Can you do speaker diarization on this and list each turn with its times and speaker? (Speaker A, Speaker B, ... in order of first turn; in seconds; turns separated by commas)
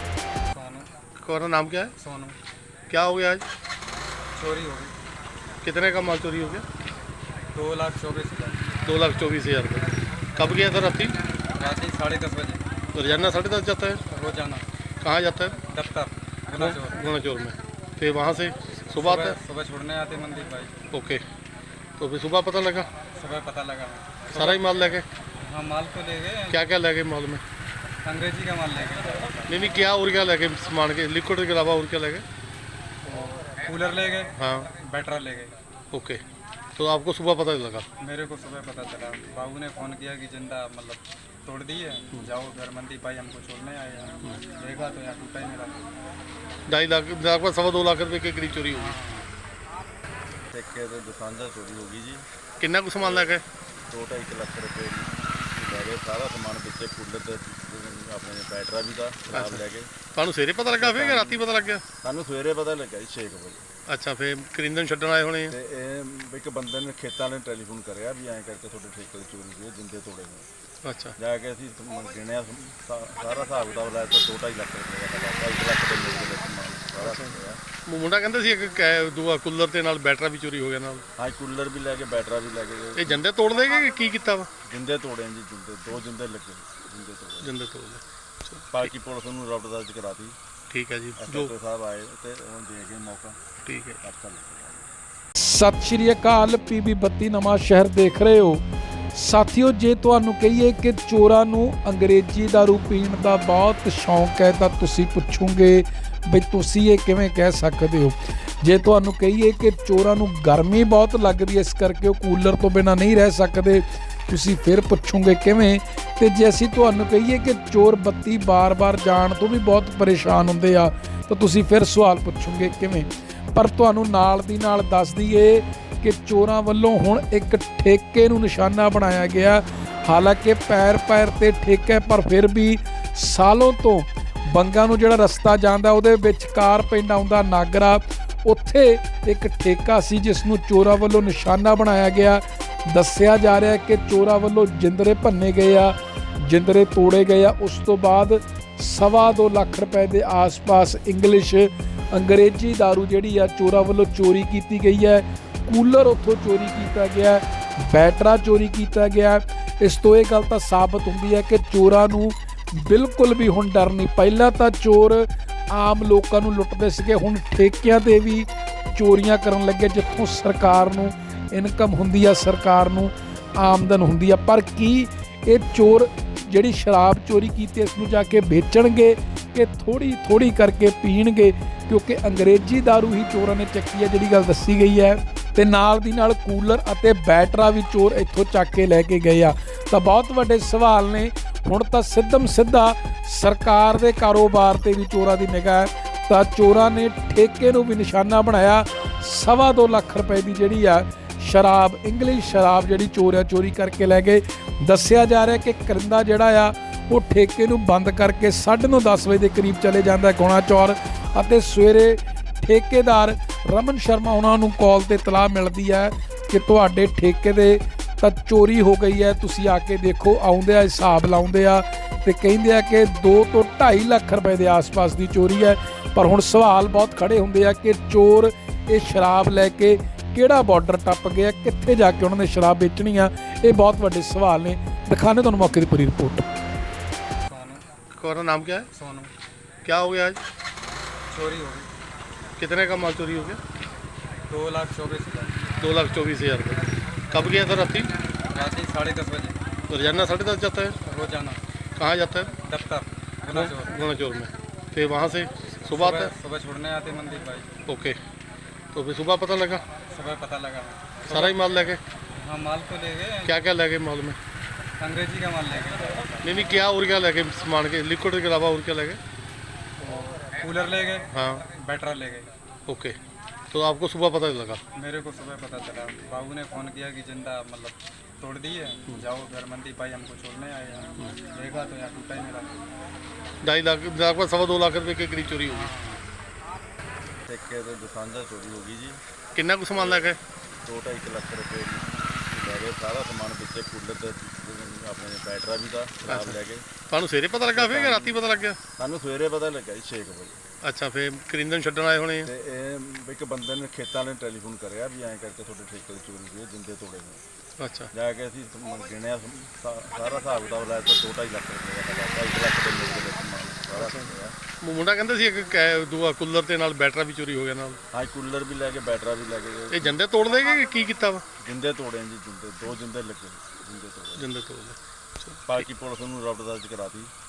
Speaker A: 0.5-0.9, Speaker B: 1.2-1.9, Speaker A: 2.0-2.4, Speaker B: 2.9-3.4, Speaker A: 4.3-4.9, Speaker B: 5.6-6.6, Speaker A: 7.5-8.6, Speaker B: 8.8-11.2, Speaker A: 11.5-12.6, Speaker B: 12.9-14.0, Speaker A: 14.1-14.7, Speaker B: 15.0-15.6, Speaker A: 15.7-17.0, Speaker B: 16.6-19.4, Speaker A: 18.9-20.8, Speaker B: 20.9-21.2, Speaker B: 22.0-22.9, Speaker A: 23.1-24.7, Speaker B: 24.3-25.1, Speaker A: 25.4-26.6, Speaker B: 26.5-27.4, Speaker A: 28.0-29.8, Speaker B: 29.5-32.2, Speaker A: 33.0-35.5, Speaker B: 34.4-34.7, Speaker B: 35.9-36.2, Speaker B: 36.8-37.9, Speaker A: 38.0-45.8, Speaker B: 46.7-48.9, Speaker A: 48.7-49.3, Speaker C: 50.5-52.2, Speaker B: 52.6-53.4, Speaker C: 53.0-59.9, Speaker B: 59.3-59.6, Speaker B: 60.1-61.8, Speaker C: 60.8-61.4, Speaker C: 62.0-63.7, Speaker B: 63.9-65.5, Speaker C: 65.5-70.5, Speaker B: 70.8-71.2, Speaker C: 71.2-77.6, Speaker B: 77.9-81.0, Speaker C: 81.2-83.2, Speaker B: 83.0-84.5, Speaker C: 84.7-87.5, Speaker B: 87.4-88.9, Speaker C: 88.7-90.3, Speaker B: 90.7-91.5, Speaker C: 91.2-93.4, Speaker B: 93.7-94.0, Speaker C: 94.0-94.9, Speaker D: 95.4-98.6, Speaker D: 99.1-236.4, Speaker A: 237.4-237.8, Speaker B: 238.2-238.9, Speaker A: 238.9-239.3, Speaker B: 239.8-240.4, Speaker A: 241.3-241.9, Speaker B: 242.6-243.6, Speaker A: 244.5-245.6, Speaker B: 245.8-248.1, Speaker A: 248.5-249.6, Speaker B: 249.9-251.0, Speaker A: 251.0-251.6, Speaker B: 251.9-252.6, Speaker A: 252.7-253.9, Speaker B: 253.5-256.3, Speaker A: 255.9-257.7, Speaker B: 257.9-258.2, Speaker B: 258.9-259.8, Speaker A: 260.1-261.6, Speaker B: 261.3-262.0, Speaker A: 262.3-263.6, Speaker B: 263.4-264.4, Speaker A: 265.0-266.8, Speaker B: 266.4-269.2, Speaker A: 270.0-272.5, Speaker B: 271.3-271.6, Speaker B: 272.9-273.1, Speaker B: 273.7-274.8, Speaker A: 274.9-282.7, Speaker B: 283.6-285.9, Speaker A: 285.7-286.2, Speaker C: 287.4-289.2, Speaker B: 289.6-290.4, Speaker C: 289.9-296.9, Speaker B: 296.3-296.6, Speaker B: 297.1-298.8, Speaker C: 297.7-298.4, Speaker C: 299.0-300.6, Speaker B: 300.8-302.5, Speaker C: 302.4-307.4, Speaker B: 307.8-308.1, Speaker C: 308.1-314.6, Speaker B: 314.8-318.0, Speaker C: 318.1-320.2, Speaker B: 319.9-321.4, Speaker C: 321.6-324.5, Speaker B: 324.4-325.9, Speaker C: 325.7-327.3